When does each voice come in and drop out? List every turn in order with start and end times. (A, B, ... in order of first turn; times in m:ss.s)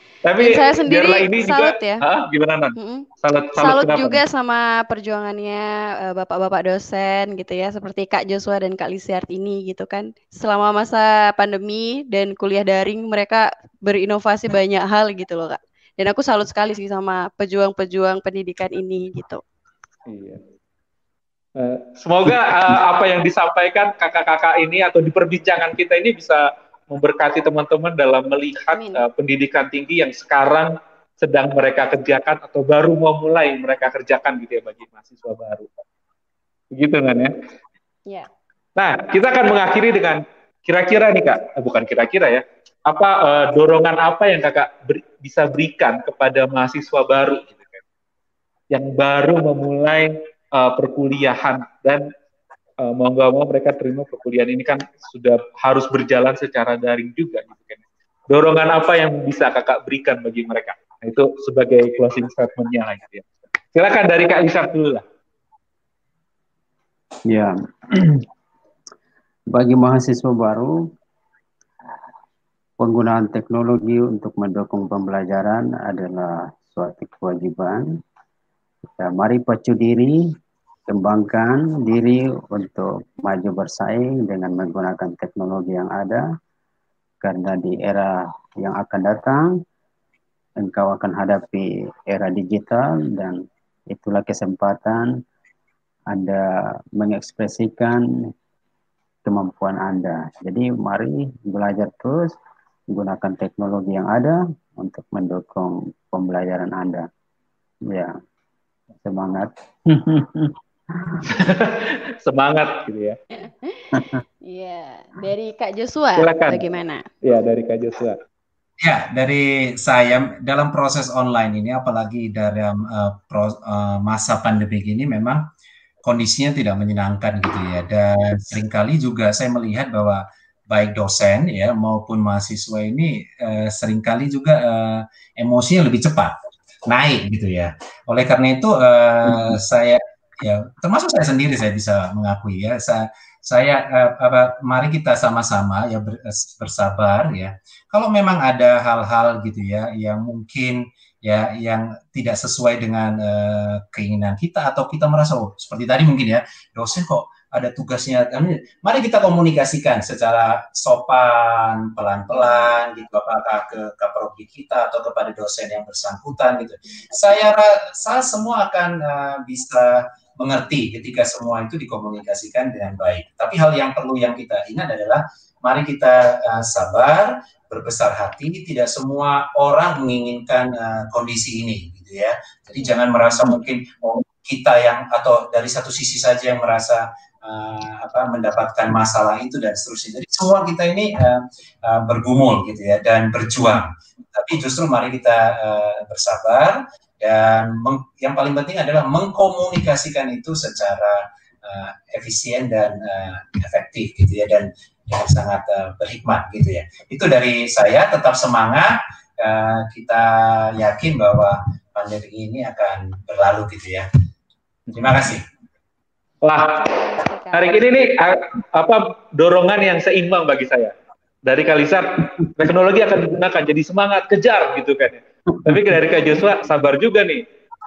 0:00.2-0:04.2 A
0:00.4-0:02.1 B
0:02.8-0:19.4 B
0:20.1-0:20.4 A
0:21.6-0:35.7 A
0:28.7-0:29.0 B
0:36.7-0:37.3 A
0:38.8-0:47.8 A
0:48.7-0:52.1 A
0:52.8-1:05.0 A
1:07.3-1:08.2 C
1:09.5-1:10.8 C
1:12.8-1:17.9 C
1:19.0-1:20.2 C
1:20.9-1:26.2 C
1:27.2-1:29.6 C
1:30.6-1:35.1 C
1:36.1-1:38.1 C
1:39.2-1:42.3 C
1:42.9-1:47.1 C
1:47.9-1:48.2 C
1:49.0-1:51.2 C
1:51.2-1:53.2 A
1:53.4-1:57.1 B
1:53.9-1:54.2 C
1:56.2-1:56.6 A
1:57.2-1:58.2 A
1:58.8-2:05.4 D
2:06.0-2:16.4 D
2:16.9-3:34.1 D
3:34.9-3:35.4 D
3:36.4-3:36.9 A
3:36.6-3:37.7 B
3:37.5-3:40.9 A
3:41.5-3:47.4 A